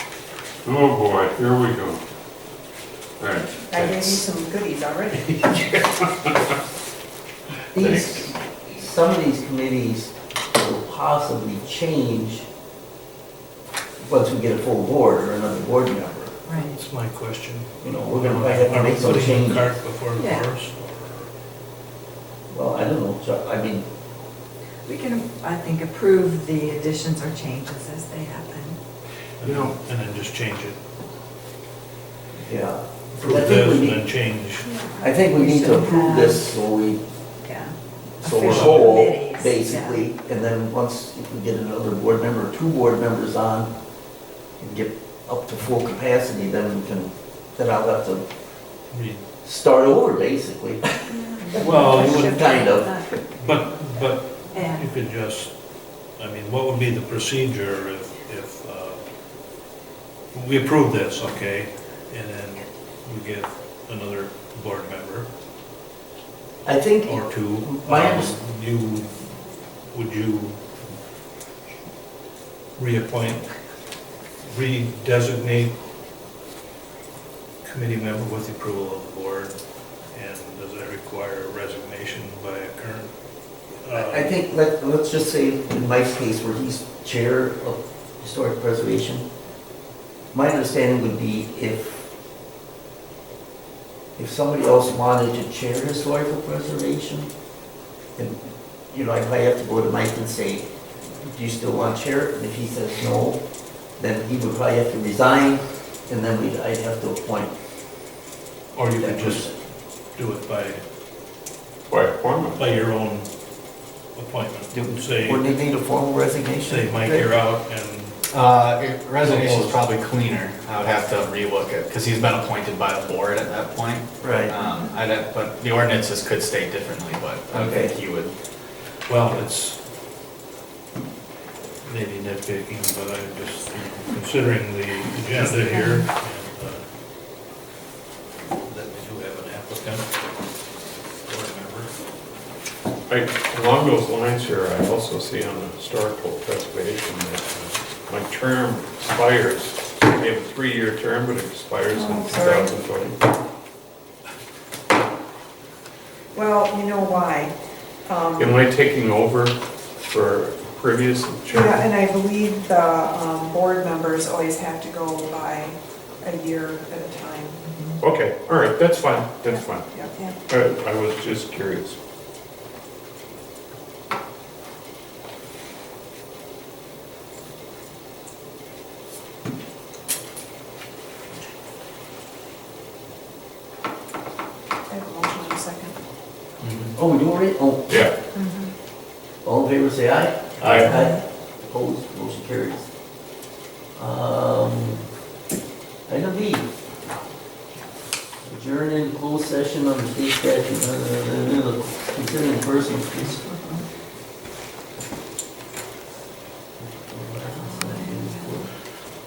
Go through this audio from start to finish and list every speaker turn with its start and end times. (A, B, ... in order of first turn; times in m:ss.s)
0:00.6-0:02.0 A
0:03.2-0:04.1 A
0:03.7-0:05.7 B
0:07.7-0:12.5 C
0:07.8-0:08.2 A
0:14.0-0:16.4 C
0:16.5-0:16.8 D
0:16.7-0:21.3 E
0:17.8-0:19.7 C
0:20.1-0:20.5 D
0:22.5-0:23.9 C
0:24.9-0:28.8 D
0:29.4-0:30.8 E
0:29.4-0:29.8 A
0:32.4-0:34.0 C
0:33.2-0:34.7 E
0:34.6-0:36.5 D
0:35.0-0:37.0 C
0:37.4-0:40.0 D
0:38.2-0:43.7 C
0:44.6-0:48.3 C
0:48.9-0:49.2 E
0:49.4-0:50.9 C
0:51.1-0:53.2 D
0:51.6-0:53.0 C
0:51.6-0:52.4 E
0:53.3-0:55.5 E
0:54.5-0:54.9 D
0:56.2-0:59.0 E
1:00.3-1:05.3 E
1:06.6-1:08.4 C
1:07.0-1:09.1 E
1:09.9-1:10.6 E
1:12.8-1:13.5 E
1:14.5-1:15.8 E
1:17.6-1:19.6 E
1:20.1-1:23.1 E
1:23.8-1:24.3 E
1:23.9-1:29.3 C
1:30.3-1:32.1 C
1:34.2-1:37.3 C
1:38.2-1:43.4 C
1:44.0-1:47.5 C
1:48.8-1:49.5 E
1:48.9-1:49.6 C
1:50.1-1:50.8 E
1:51.9-1:52.6 A
1:52.6-1:53.3 E
1:54.1-1:55.5 E
1:54.7-1:57.3 C
1:56.6-1:58.2 E
1:58.3-2:08.3 F
1:59.2-1:59.8 E
2:04.2-2:04.6 C
2:07.5-2:07.9 C
2:09.1-2:09.8 E
2:11.8-2:16.8 E
2:15.6-2:16.0 D
2:18.6-2:20.1 E
2:21.2-2:21.9 E
2:23.1-2:33.2 A
2:31.9-2:32.7 B
2:36.3-2:37.5 B
2:38.1-2:38.5 B
2:38.4-2:41.8 A
2:41.5-2:47.6 B
2:47.7-2:48.0 D
2:48.0-2:49.9 A
2:49.6-2:50.4 B
2:50.5-2:52.0 A
3:04.9-3:06.0 B
3:06.6-3:06.9 E
3:07.0-3:08.0 C
3:08.3-3:08.7 B
3:09.4-3:12.9 C
3:10.6-3:10.9 A
3:10.9-3:11.2 D
3:14.0-3:15.0 C
3:16.1-3:16.7 C
3:18.4-3:23.6 C
3:26.8-3:28.7 C
3:27.9-3:28.3 D